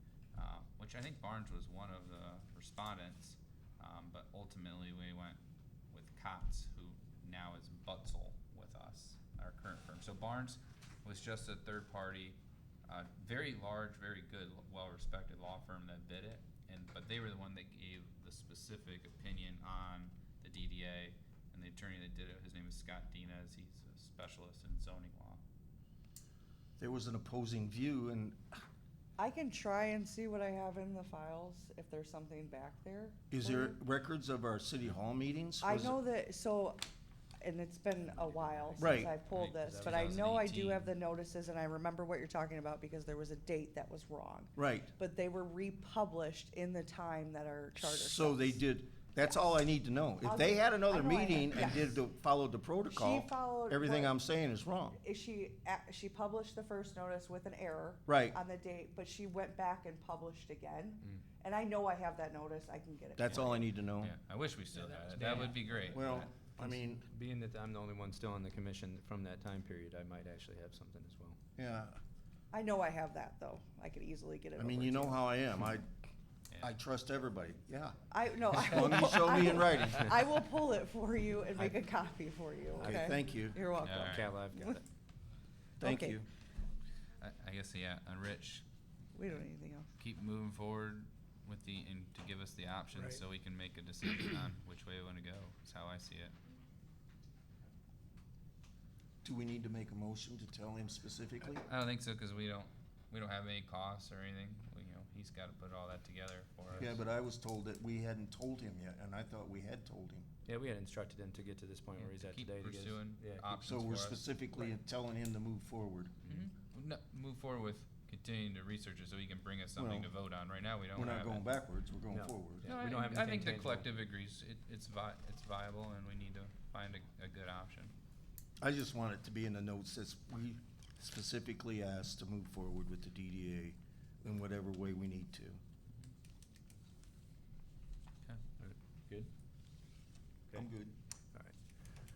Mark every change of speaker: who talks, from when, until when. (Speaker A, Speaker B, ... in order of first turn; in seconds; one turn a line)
Speaker A: 0.3-25.4
Speaker B: 26.8-28.6
Speaker C: 29.2-33.8
Speaker B: 33.3-36.0
Speaker C: 35.6-36.8
Speaker C: 37.4-48.6
Speaker B: 38.8-39.1
Speaker A: 39.3-40.9
Speaker D: 39.6-40.3
Speaker B: 44.6-44.9
Speaker B: 47.8-55.0
Speaker C: 49.2-49.6
Speaker C: 50.2-52.0
Speaker C: 52.9-54.2
Speaker C: 55.0-63.7
Speaker B: 58.1-58.4
Speaker B: 63.2-64.1
Speaker A: 63.3-66.3
Speaker D: 64.9-71.4
Speaker B: 65.9-67.1
Speaker B: 71.6-72.0
Speaker C: 72.5-75.2
Speaker B: 74.6-75.9
Speaker B: 76.6-78.0
Speaker C: 78.1-84.8
Speaker B: 78.5-80.1
Speaker B: 82.8-83.6
Speaker A: 83.8-84.3
Speaker D: 84.0-84.8
Speaker B: 85.8-86.3
Speaker C: 85.8-86.2
Speaker A: 87.2-88.6
Speaker C: 89.1-89.9
Speaker A: 90.0-96.3
Speaker B: 99.2-101.7
Speaker A: 101.7-107.0
Speaker B: 106.7-110.3
Speaker D: 110.5-113.5
Speaker A: 112.0-114.2
Speaker B: 113.6-116.2
Speaker A: 116.3-121.5
Speaker B: 119.8-120.1
Speaker B: 121.0-122.7
Speaker D: 122.1-123.9
Speaker A: 122.6-127.9
Speaker B: 128.6-135.6
Speaker D: 138.6-139.3
Speaker B: 140.5-141.0